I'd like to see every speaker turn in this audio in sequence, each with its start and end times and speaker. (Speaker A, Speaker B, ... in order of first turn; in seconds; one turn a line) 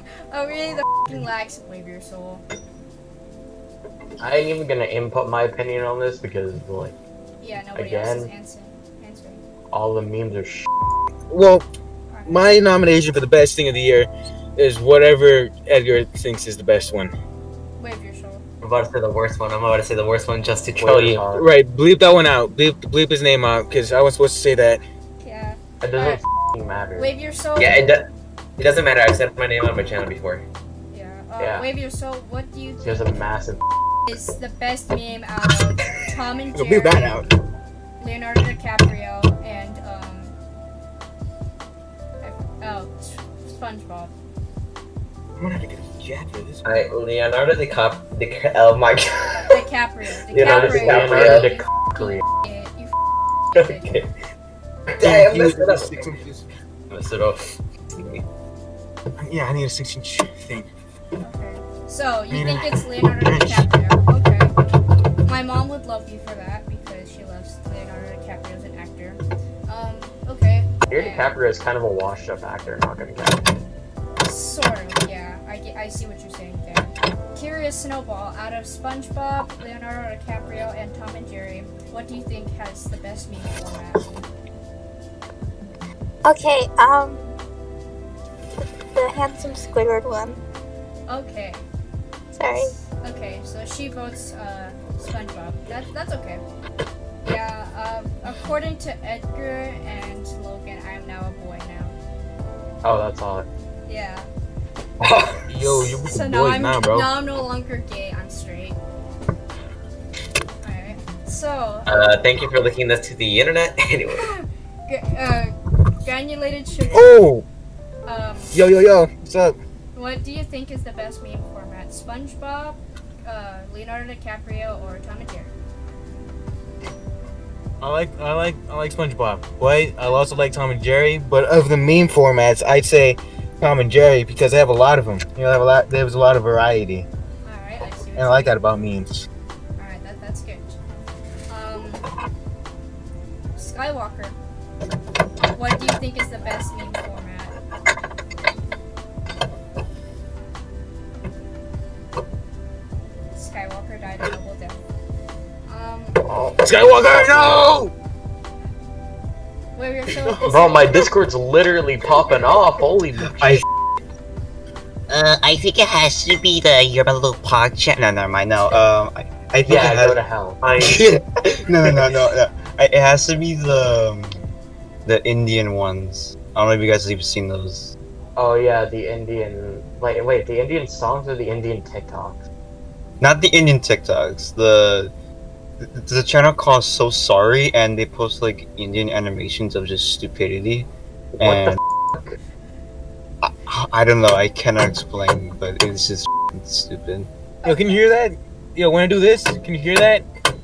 Speaker A: 0.3-2.4
Speaker B: 4.2-7.0
Speaker A: 7.4-9.4
Speaker B: 7.7-8.3
Speaker B: 9.7-10.7
Speaker C: 11.3-11.7
Speaker A: 12.1-12.6
Speaker C: 12.3-17.1
Speaker A: 17.8-18.4
Speaker D: 18.6-21.2
Speaker B: 20.8-21.5
Speaker C: 21.3-24.8
Speaker A: 25.2-26.2
Speaker B: 25.8-27.1
Speaker A: 27.0-27.9
Speaker D: 27.6-30.4
Speaker A: 30.9-33.1
Speaker B: 31.4-31.7
Speaker B: 32.8-33.6
Speaker A: 34.1-37.2
Speaker C: 36.0-37.3
Speaker A: 38.0-40.4
Speaker A: 42.2-44.1
Speaker C: 45.4-46.8
Speaker D: 46.6-49.5
Speaker A: 49.5-52.9
Speaker D: 50.3-51.5
Speaker B: 50.4-52.2
Speaker A: 53.5-53.9
Speaker D: 53.5-54.1
Speaker D: 54.9-56.1
Speaker C: 55.0-56.5
Speaker D: 56.9-58.2
Speaker C: 59.2-60.7
Speaker A: 61.2-64.5
Speaker C: 62.3-63.7
Speaker A: 65.2-71.3
Speaker B: 70.9-73.6
Speaker A: 74.2-84.3
Speaker E: 86.2-87.3
Speaker E: 88.6-90.4
Speaker A: 91.1-91.7
Speaker E: 92.3-92.7
Speaker A: 92.4-96.4
Speaker A: 97.2-102.0
Speaker B: 102.8-103.5
Speaker A: 103.8-104.3
Speaker D: 105.0-105.3
Speaker C: 105.5-107.1
Speaker A: 105.6-108.8
Speaker A: 110.6-111.9
Speaker D: 111.8-114.3
Speaker A: 114.1-117.1
Speaker C: 116.9-117.4
Speaker A: 118.0-118.6
Speaker C: 118.5-119.6
Speaker A: 119.9-125.5
Speaker C: 127.8-137.1
Speaker A: 130.0-130.6
Speaker A: 137.4-138.6
Speaker C: 138.2-139.2
Speaker A: 139.8-140.8
Speaker A: 141.5-142.1
Speaker A: 143.6-144.3
Speaker A: 145.5-147.5
Speaker A: 153.3-154.8
Speaker A: 155.7-156.2
Speaker B: 156.2-157.8
Speaker C: 156.6-157.9
Speaker A: 159.7-161.1
Speaker B: 160.5-163.6
Speaker F: 163.4-163.6
Speaker F: 165.1-170.2
Speaker B: 169.6-170.6
Speaker D: 170.6-171.1
Speaker F: 170.8-174.4
Speaker F: 175.0-177.9
Speaker B: 178.3-182.4
Speaker F: 183.2-185.1
Speaker F: 185.8-190.9
Speaker F: 191.4-191.8
Speaker B: 191.4-192.3
Speaker F: 193.4-197.3
Speaker A: 197.6-198.1
Speaker C: 197.6-200.2